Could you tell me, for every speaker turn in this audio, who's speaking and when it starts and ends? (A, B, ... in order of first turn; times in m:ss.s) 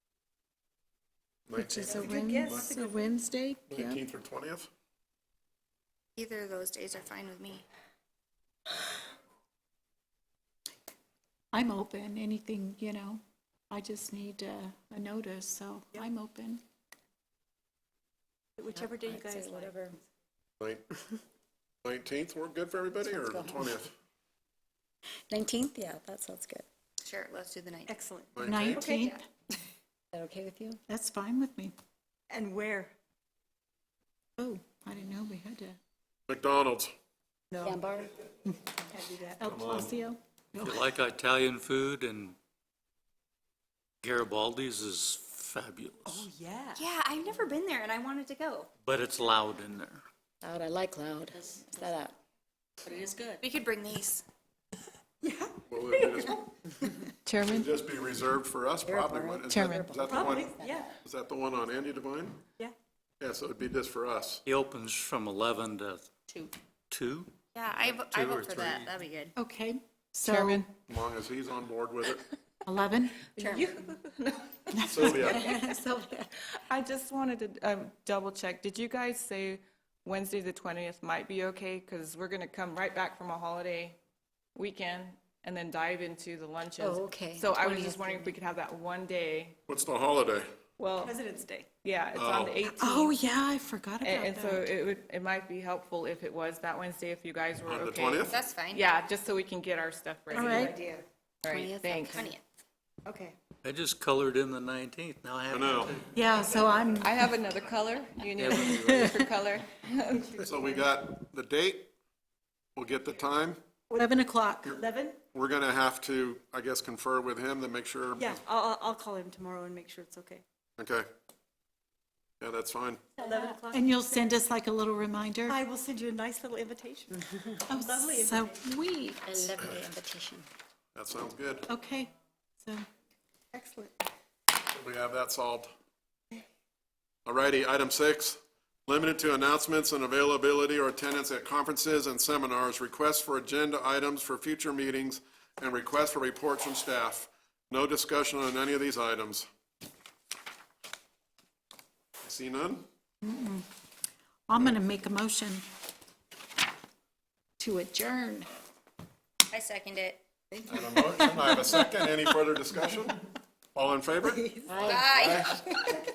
0:01.5-0:02.7 A
0:01.5-0:04.0 B
0:02.0-0:03.1 C
0:03.7-0:04.7 A
0:06.2-0:07.6 D
0:11.5-0:16.6 B
0:18.6-0:20.0 C
0:18.7-0:20.0 E
0:20.6-0:21.1 A
0:21.8-0:23.9 A
0:23.0-0:23.8 E
0:25.3-0:26.6 E
0:27.0-0:27.9 D
0:27.9-0:29.1 C
0:28.3-0:28.9 A
0:28.4-0:29.2 B
0:28.8-0:29.2 D
0:30.1-0:30.8 E
0:30.9-0:31.7 B
0:32.3-0:32.9 C
0:34.4-0:35.8 B
0:36.3-0:36.9 A
0:37.5-0:37.8 C
0:37.6-0:38.1 E
0:38.9-0:39.4 C
0:39.4-0:40.8 B
0:39.4-0:40.0 A
0:40.6-0:42.4 F
0:44.0-0:46.3 F
0:46.1-0:46.8 C
0:46.7-0:48.7 D
0:48.8-0:50.0 F
0:50.4-0:52.2 E
0:52.8-0:53.4 F
0:53.4-0:54.2 D
0:55.2-0:56.2 C
0:55.7-0:56.4 A
0:57.2-0:57.7 G
0:57.4-1:02.4 A
0:58.8-1:00.7 E
0:59.5-0:59.9 G
1:00.0-1:00.9 C
1:03.2-1:04.4 A
1:04.4-1:06.1 F
1:06.9-1:08.9 F
1:07.5-1:09.3 D
1:09.4-1:10.6 B
1:10.2-1:10.7 G
1:10.9-1:12.2 A
1:12.6-1:13.4 B
1:13.4-1:15.5 G
1:14.7-1:15.8 B
1:14.9-1:15.5 A
1:15.2-1:16.3 E
1:16.6-1:24.0 G
1:24.5-1:29.6 G
1:26.8-1:28.3 E
1:29.7-1:30.5 A
1:30.8-1:31.2 G
1:31.0-1:31.7 C
1:31.8-1:33.2 G
1:32.1-1:32.6 A
1:32.7-1:34.6 B
1:34.0-1:40.8 G
1:37.6-1:38.4 A
1:38.2-1:38.8 D
1:40.3-1:41.0 C
1:40.3-1:40.8 B
1:41.4-1:42.3 G
1:41.5-1:42.3 E
1:42.1-1:42.4 D
1:43.0-1:43.3 C
1:43.6-1:46.2 F
1:45.5-1:46.0 A
1:46.1-1:47.3 B
1:47.0-1:50.4 G
1:48.4-1:49.1 F
1:48.5-1:49.2 B
1:50.4-1:51.9 A
1:52.8-1:53.6 A
1:53.9-1:54.7 B
1:54.7-1:55.2 C
1:55.3-1:58.4 A
1:58.2-2:00.4 C
2:00.8-2:01.0 A
2:02.4-2:03.0 A
2:03.2-2:04.3 C
2:03.2-2:05.6 B
2:05.5-2:07.2 C
2:07.7-2:09.6 B
2:07.7-2:08.6 C
2:09.2-2:10.5 E
2:10.9-2:11.7 A
2:11.7-2:12.1 B
2:13.5-2:13.9 C
2:14.7-2:15.7 A
2:17.2-2:29.5 A
2:32.2-2:32.8 A
2:33.2-2:33.6 B
2:34.5-2:35.6 B
2:37.6-2:38.5 B
2:39.5-2:40.2 D
2:40.5-2:41.5 C
2:40.7-2:45.6 A
2:44.7-2:45.0 E
2:44.8-2:46.0 D